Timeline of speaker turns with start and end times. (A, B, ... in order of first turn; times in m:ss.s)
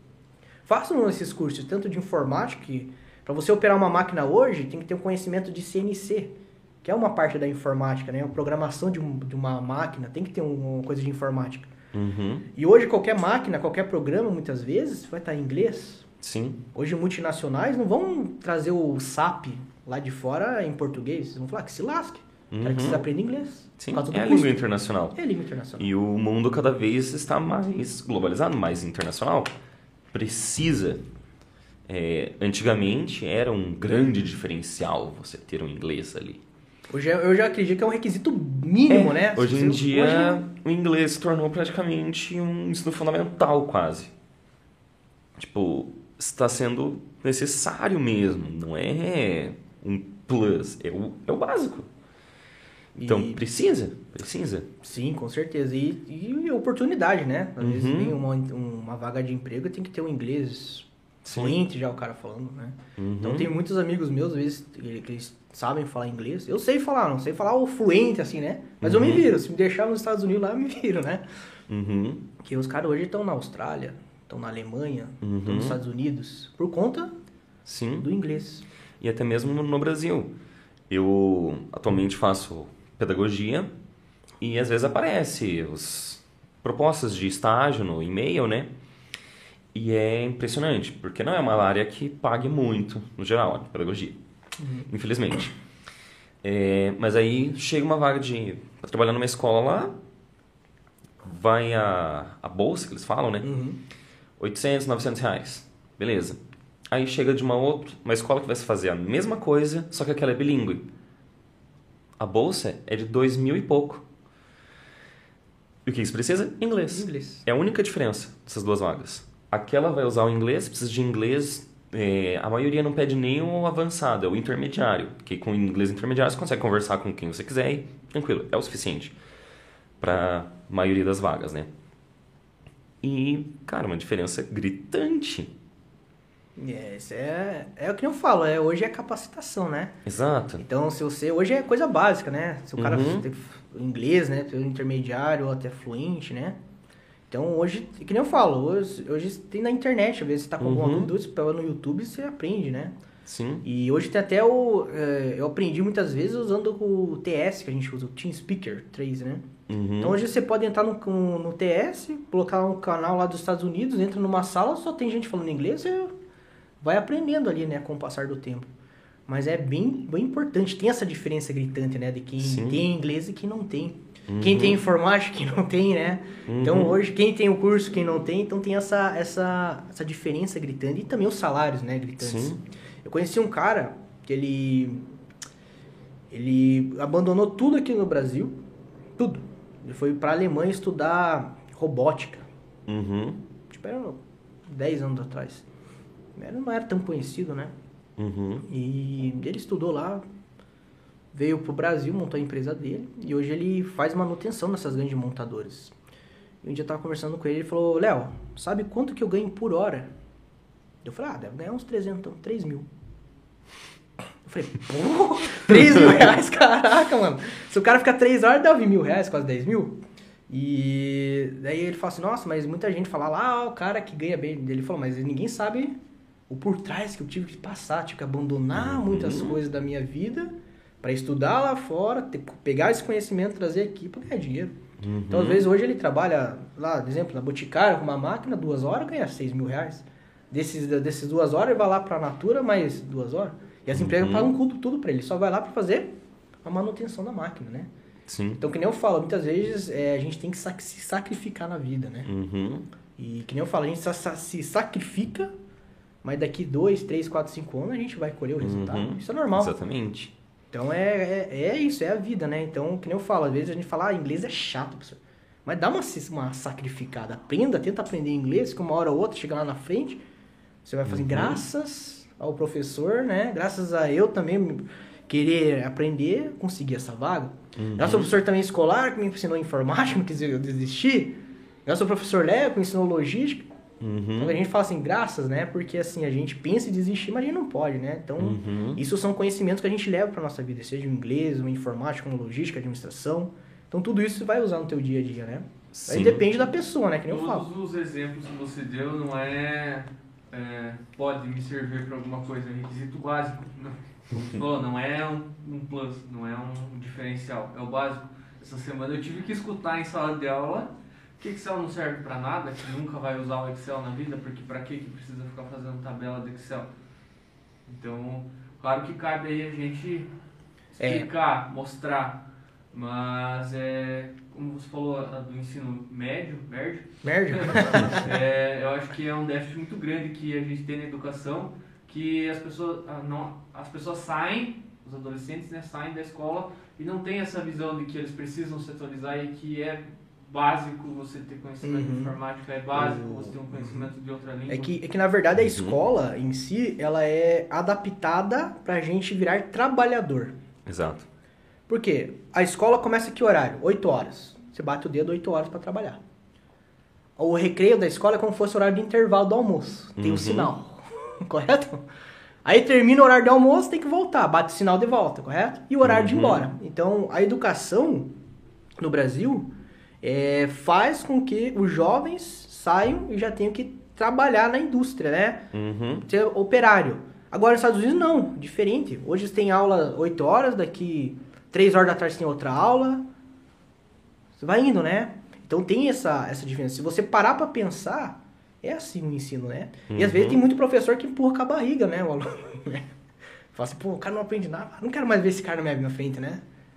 0:00.7-0:11.7 A
0:11.9-0:12.5 B
0:12.6-0:16.1 A
0:16.2-0:16.6 B
0:16.7-0:25.9 A
0:22.5-0:23.1 B
0:23.8-0:25.2 B
0:25.8-0:29.5 B
0:30.1-0:31.0 B
0:31.9-0:36.4 B
0:36.9-0:40.5 A
0:38.9-0:44.1 B
0:45.4-0:51.9 B
0:53.0-0:53.4 A
0:53.1-0:54.7 B
0:54.8-1:11.2 A
0:57.6-0:58.2 B
1:01.2-1:01.6 B
1:03.0-1:03.5 B
1:08.8-1:09.3 B
1:11.7-1:12.2 B
1:12.4-1:17.1 A
1:15.2-1:15.8 B
1:17.6-1:18.1 B
1:18.0-1:18.6 A
1:19.0-1:20.3 B
1:20.9-1:23.7 B
1:24.4-1:28.7 B
1:29.7-1:34.2 B
1:34.6-1:34.9 A
1:34.9-1:35.5 B
1:36.4-1:39.9 B
1:41.2-1:43.5 B
1:43.4-1:43.8 A
1:44.4-1:46.4 B
1:46.9-1:50.9 B
1:52.2-1:54.0 B
1:55.8-2:09.1 B
1:56.9-1:57.4 A
2:10.0-2:11.7 B
2:13.0-2:15.5 B
2:16.6-2:20.0 A
2:20.1-2:20.6 B
2:20.6-2:26.6 A
2:22.8-2:23.2 B
2:27.3-2:33.0 A
2:30.6-2:31.1 B
2:33.3-2:33.6 B
2:33.6-2:46.1 A
2:39.7-2:40.2 B
2:46.8-2:48.7 A
2:49.3-3:05.0 A
2:52.4-2:52.8 B
2:54.3-2:54.8 B
2:56.5-2:57.0 B
3:02.2-3:02.6 B
3:06.3-3:08.6 A
3:09.2-3:12.5 A
3:12.9-3:13.4 B
3:13.7-3:15.7 A
3:16.4-3:17.7 A
3:18.2-3:18.6 B
3:18.7-3:20.2 A
3:21.3-3:26.0 A
3:26.6-3:30.1 A
3:31.0-3:32.9 A
3:34.5-3:46.0 A
3:46.5-4:06.1 A
3:48.8-3:49.6 B
3:55.0-3:55.6 B
4:03.9-4:04.5 B
4:06.6-4:07.9 A
4:08.3-4:08.6 B
4:08.6-4:12.3 A
4:12.3-4:12.9 B
4:13.2-4:15.5 A
4:16.2-4:19.8 A
4:18.6-4:20.3 B
4:20.7-4:30.2 A
4:30.8-4:43.7 A
4:31.1-4:31.6 B
4:37.8-4:38.3 B
4:44.0-4:44.6 B
4:44.4-4:57.7 A
4:48.4-4:49.0 B
4:55.9-4:56.5 B
4:57.3-5:16.9 C
5:17.9-5:20.3 C
5:21.0-5:22.4 C
5:21.0-5:21.3 A
5:22.9-5:44.9 C
5:27.2-5:28.3 A
5:41.8-5:42.4 A
5:42.9-5:44.1 A
5:44.7-5:50.6 A
5:45.6-5:46.0 B
5:50.9-5:51.3 B
5:51.9-5:56.2 A
5:57.4-6:02.0 A
6:00.2-6:00.7 B
6:02.6-6:08.3 A
6:06.0-6:06.6 B
6:09.0-6:15.7 A
6:15.7-6:16.2 B
6:16.3-6:23.2 A
6:24.6-6:33.1 A
6:30.1-6:30.6 B
6:33.7-6:36.6 A